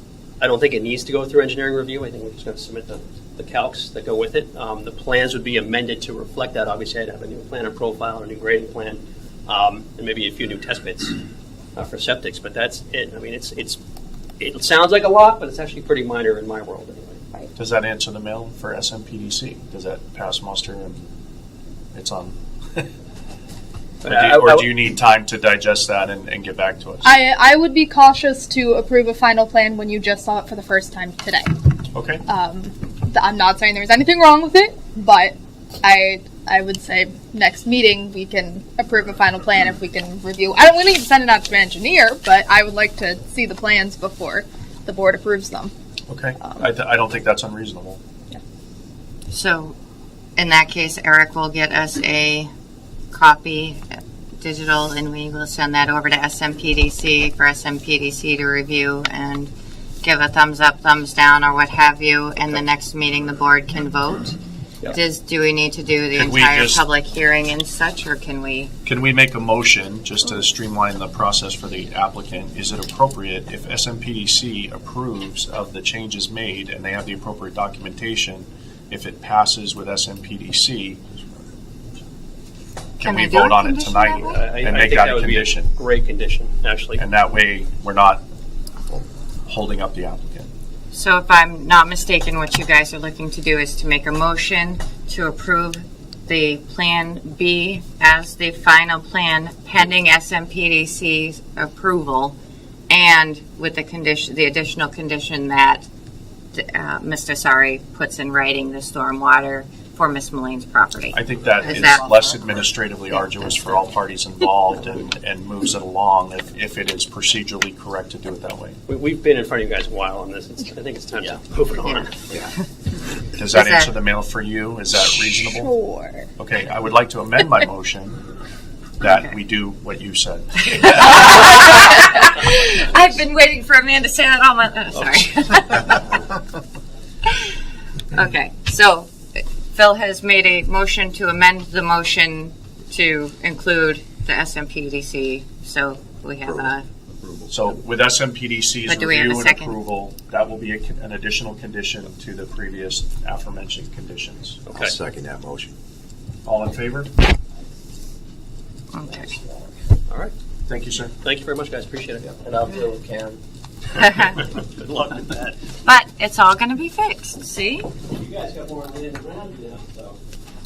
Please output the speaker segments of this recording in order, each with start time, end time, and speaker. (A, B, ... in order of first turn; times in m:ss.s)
0:00.4-0:11.2 A
0:11.8-0:13.8 A
0:14.4-0:17.3 A
0:17.6-0:21.1 B
0:21.9-0:22.9 B
0:24.0-0:24.7 A
0:24.0-0:27.2 B
0:27.0-0:31.6 C
0:31.9-0:32.2 B
0:32.3-0:45.7 C
0:46.1-0:48.0 B
0:49.3-0:49.8 D
0:50.4-0:52.5 D
0:53.1-0:53.8 D
0:54.4-0:59.5 D
1:00.0-1:04.4 D
1:04.9-1:08.7 D
1:06.2-1:06.8 B
1:08.9-1:21.0 B
1:23.0-1:24.4 D
1:23.0-1:25.7 B
1:24.3-1:27.0 A
1:27.0-1:28.2 B
1:28.9-1:30.5 B
1:30.9-1:42.4 D
1:42.9-1:45.9 D
1:46.5-1:52.3 D
1:51.1-1:58.8 B
1:58.9-2:02.4 A
2:03.4-2:05.7 B
2:03.5-2:04.0 D
2:05.4-2:06.3 C
2:06.4-2:08.2 B
2:09.0-2:11.4 B
2:09.0-2:09.3 D
2:10.6-2:16.0 D
2:17.3-2:17.6 D
2:18.1-2:26.9 D
2:26.4-2:27.5 E
2:27.5-2:34.6 B
2:28.8-2:29.8 D
2:34.7-2:35.0 A
2:34.7-2:35.7 E
2:36.4-2:37.1 B
2:38.9-2:39.4 D
2:40.1-2:40.3 A
2:40.7-2:41.1 B
2:41.2-2:43.4 A
2:44.0-2:45.7 A
2:44.0-2:44.4 D
2:45.8-2:48.0 D
2:48.0-2:50.2 A